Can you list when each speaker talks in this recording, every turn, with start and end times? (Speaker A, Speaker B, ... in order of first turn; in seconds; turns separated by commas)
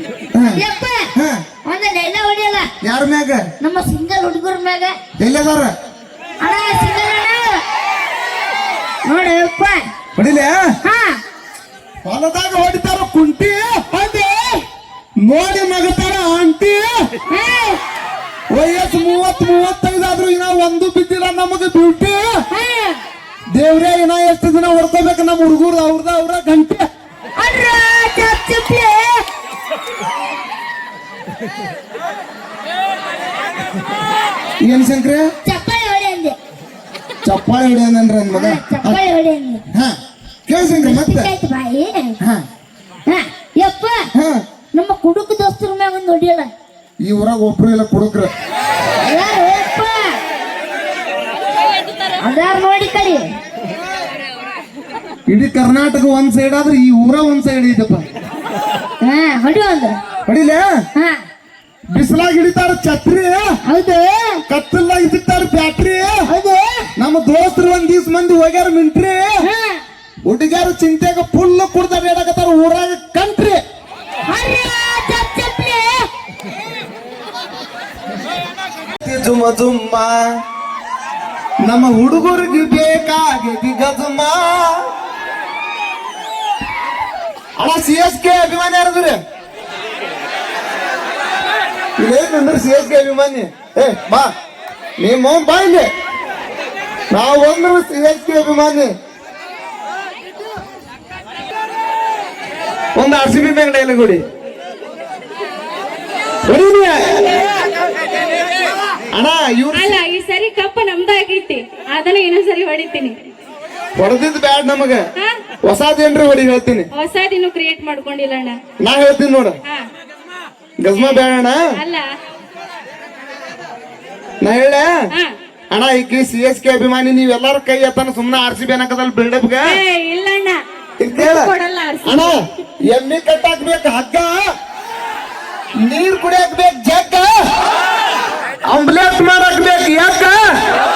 Speaker A: 0.3-0.6, Speaker B: 0.6-1.1, Speaker B: 1.6-2.7, Speaker A: 2.8-3.4, Speaker B: 3.6-4.9, Speaker A: 5.2-5.7, Speaker B: 6.4-7.6, Speaker B: 9.1-9.9, Speaker A: 10.2-10.6, Speaker B: 10.8-11.2, Speaker A: 12.0-13.8, Speaker B: 13.9-14.6, Speaker A: 15.2-16.9, Speaker B: 17.3-17.8, Speaker A: 18.5-22.2, Speaker B: 22.5-22.9, Speaker A: 23.6-26.8, Speaker B: 27.4-29.2, Speaker A: 34.6-35.3, Speaker B: 35.4-36.4, Speaker A: 37.2-39.0, Speaker B: 38.3-39.6, Speaker A: 40.5-41.3, Speaker B: 40.6-42.2, Speaker B: 43.1-44.0, Speaker A: 44.1-44.4, Speaker B: 44.8-46.5, Speaker A: 47.0-48.3, Speaker B: 49.0-50.1, Speaker B: 52.2-53.2, Speaker A: 55.3-58.0, Speaker B: 59.0-60.0, Speaker A: 60.3-60.7, Speaker A: 61.9-63.5, Speaker B: 63.6-64.4, Speaker A: 64.5-66.2, Speaker B: 66.3-66.9, Speaker A: 67.0-69.3, Speaker B: 69.4-69.8, Speaker A: 70.3-73.6, Speaker B: 74.3-76.0, Speaker A: 79.0-80.2, Speaker A: 81.6-84.8, Speaker A: 87.6-89.2, Speaker A: 92.0-94.3, Speaker A: 95.0-95.9, Speaker A: 97.1-98.9, Speaker A: 103.0-104.2, Speaker A: 106.4-107.4, Speaker A: 109.1-110.0, Speaker C: 109.7-113.1, Speaker A: 114.0-115.0, Speaker A: 115.6-116.9, Speaker C: 116.9-118.5, Speaker A: 118.8-119.6, Speaker A: 120.8-121.6, Speaker C: 120.9-122.1, Speaker A: 124.4-124.9, Speaker A: 125.7-129.8, Speaker C: 129.6-130.6, Speaker A: 131.0-131.5, Speaker C: 131.1-132.5, Speaker A: 132.0-134.4, Speaker A: 135.8-137.3, Speaker A: 138.7-140.4